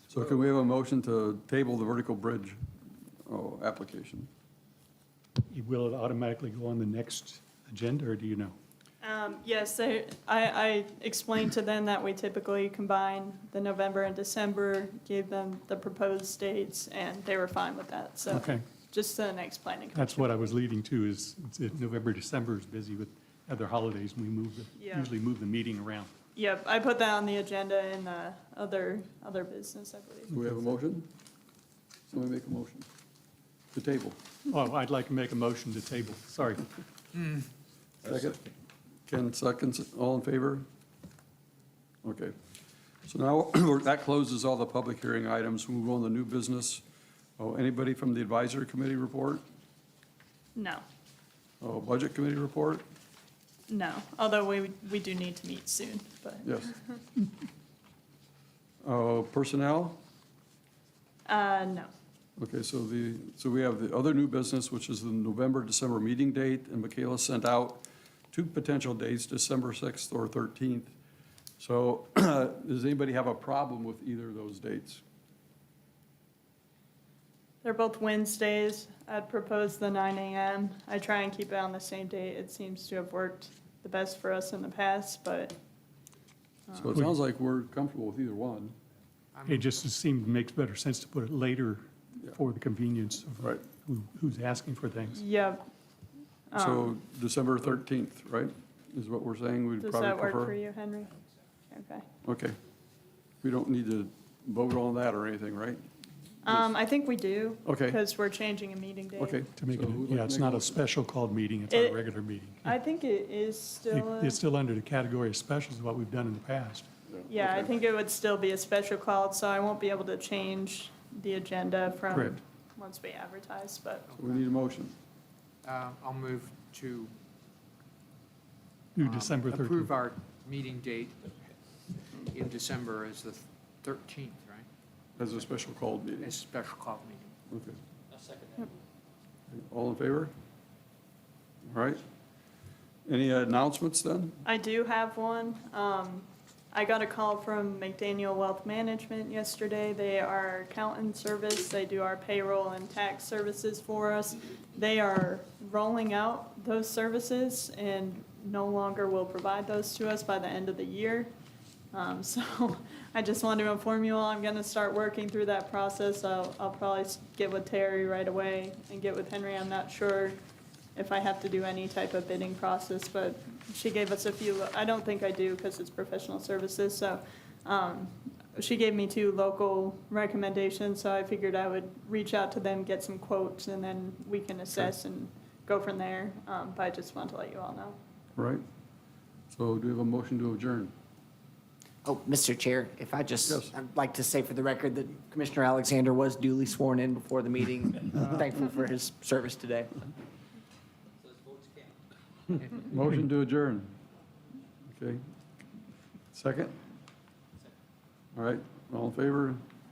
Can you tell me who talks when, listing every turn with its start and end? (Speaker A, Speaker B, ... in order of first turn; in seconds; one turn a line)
Speaker A: 0.1-2.6
Speaker A: 3.3-4.3
Speaker B: 5.5-8.6
Speaker C: 9.0-20.4
Speaker B: 18.3-18.6
Speaker B: 19.9-26.1
Speaker C: 24.8-25.1
Speaker C: 26.4-30.4
Speaker A: 30.3-31.1
Speaker A: 32.1-32.9
Speaker A: 33.7-34.2
Speaker B: 34.5-36.7
Speaker A: 38.0-38.4
Speaker A: 39.1-40.6
Speaker A: 42.0-42.4
Speaker A: 43.1-46.8
Speaker A: 47.4-49.4
Speaker C: 50.6-50.8
Speaker A: 51.6-52.8
Speaker C: 53.7-57.0
Speaker A: 56.5-56.7
Speaker A: 58.8-60.0
Speaker C: 61.3-61.9
Speaker A: 62.4-71.0
Speaker A: 71.6-75.0
Speaker C: 77.6-85.6
Speaker A: 86.7-88.8
Speaker D: 89.3-89.6
Speaker B: 89.5-95.2
Speaker C: 95.2-95.7
Speaker C: 96.5-96.9
Speaker A: 96.5-100.6
Speaker C: 99.8-101.2
Speaker C: 101.7-102.1
Speaker A: 102.2-102.6
Speaker A: 103.4-105.8
Speaker C: 106.4-109.4
Speaker A: 107.7-108.0
Speaker A: 109.2-110.8
Speaker B: 109.6-112.7
Speaker C: 111.7-112.0
Speaker C: 112.6-114.4
Speaker B: 113.9-116.9
Speaker A: 117.1-117.7
Speaker C: 117.3-124.1
Speaker A: 124.2-125.0
Speaker D: 125.6-127.2
Speaker B: 129.0-129.9
Speaker D: 129.0-131.4
Speaker D: 132.2-134.7
Speaker A: 135.2-136.4
Speaker D: 136.2-137.3
Speaker A: 137.5-137.8
Speaker A: 139.5-140.3
Speaker A: 141.7-142.0
Speaker A: 143.1-144.4
Speaker C: 144.4-161.3
Speaker C: 161.9-170.4
Speaker C: 170.9-188.0
Speaker A: 188.4-188.6
Speaker A: 189.5-190.9
Speaker E: 192.1-200.0
Speaker A: 193.5-193.7
Speaker A: 202.5-203.9
Speaker A: 204.9-205.2
Speaker A: 206.3-206.8
Speaker A: 208.3-209.6